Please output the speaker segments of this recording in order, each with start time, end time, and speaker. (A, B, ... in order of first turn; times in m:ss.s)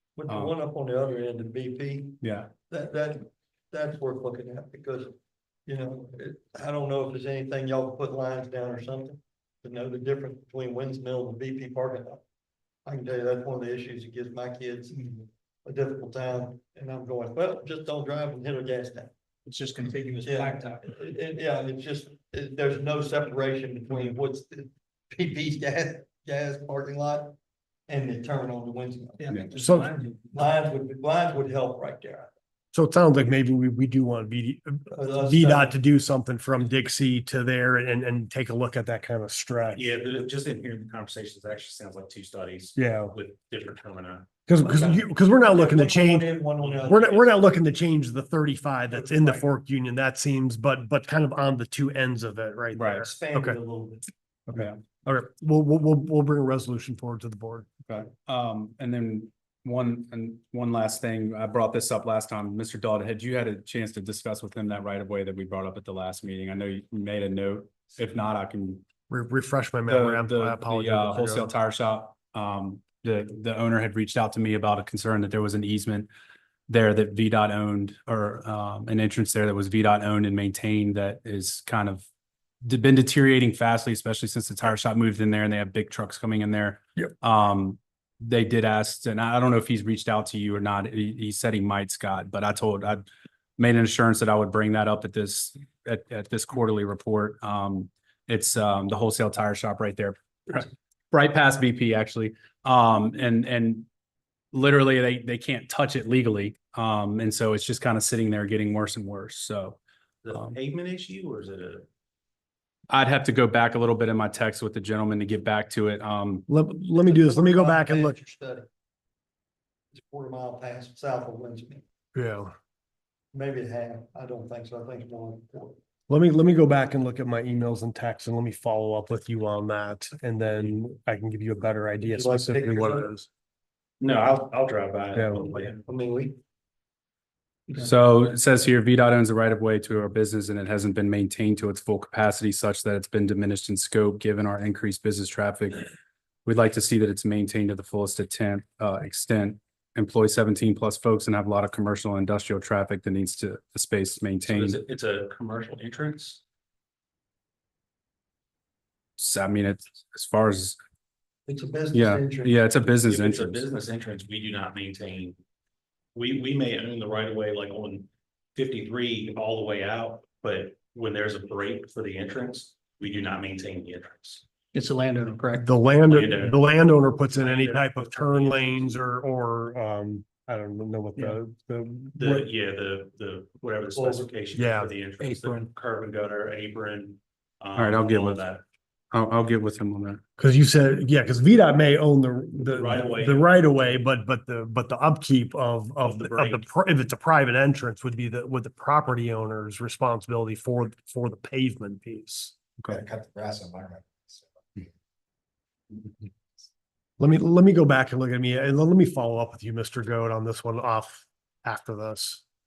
0:00.2-0:05.1 A
0:00.3-0:00.5 B
0:02.2-0:02.5 B
0:05.6-0:12.2 A
0:12.8-0:15.0 A
0:14.9-0:15.2 C
0:15.6-0:19.1 A
0:19.4-0:21.0 C
0:20.2-0:27.3 A
0:27.9-0:29.3 A
0:29.2-0:30.5 C
0:29.6-0:30.0 D
0:30.3-0:32.3 A
0:32.7-0:39.8 D
0:34.9-0:35.7 A
0:39.7-0:44.3 E
0:42.8-0:43.1 D
0:44.5-0:53.6 D
0:45.5-0:47.3 A
0:48.9-0:49.4 A
0:52.7-0:53.1 B
0:53.0-0:54.1 A
0:54.5-0:57.7 D
0:54.5-0:54.8 B
0:57.9-1:08.8 B
1:09.1-1:11.5 D
1:09.9-1:16.1 B
1:16.7-1:22.0 B
1:22.6-1:33.0 B
1:33.6-1:43.9 B
1:44.5-1:49.8 B
1:50.2-1:51.8 E
1:52.9-1:56.4 B
1:56.5-1:58.2 D
1:56.9-1:58.7 A
1:59.9-2:01.8 A
2:02.1-2:02.5 D
2:03.3-2:05.8 A
2:06.1-2:13.3 D
2:12.0-2:13.1 A
2:14.0-2:15.8 E
2:15.1-2:15.5 D
2:15.9-2:16.3 A
2:17.7-2:25.8 B
2:26.4-2:34.8 B
2:34.4-2:36.4 E
2:39.2-2:40.8 B
2:41.5-2:42.6 A
2:41.9-2:43.6 B
2:43.1-2:45.4 E
2:46.1-2:54.4 E
2:54.7-2:55.7 C
2:55.6-3:02.5 D
2:56.1-2:58.9 E
3:02.1-3:08.6 E
3:04.0-3:04.3 A
3:04.5-3:04.9 D
3:05.2-3:05.7 C
3:07.7-3:08.4 B
3:09.1-3:10.2 B
3:10.4-3:22.5 D
3:12.6-3:13.5 E
3:16.0-3:16.7 E
3:22.9-3:24.9 F
3:27.2-3:32.4 D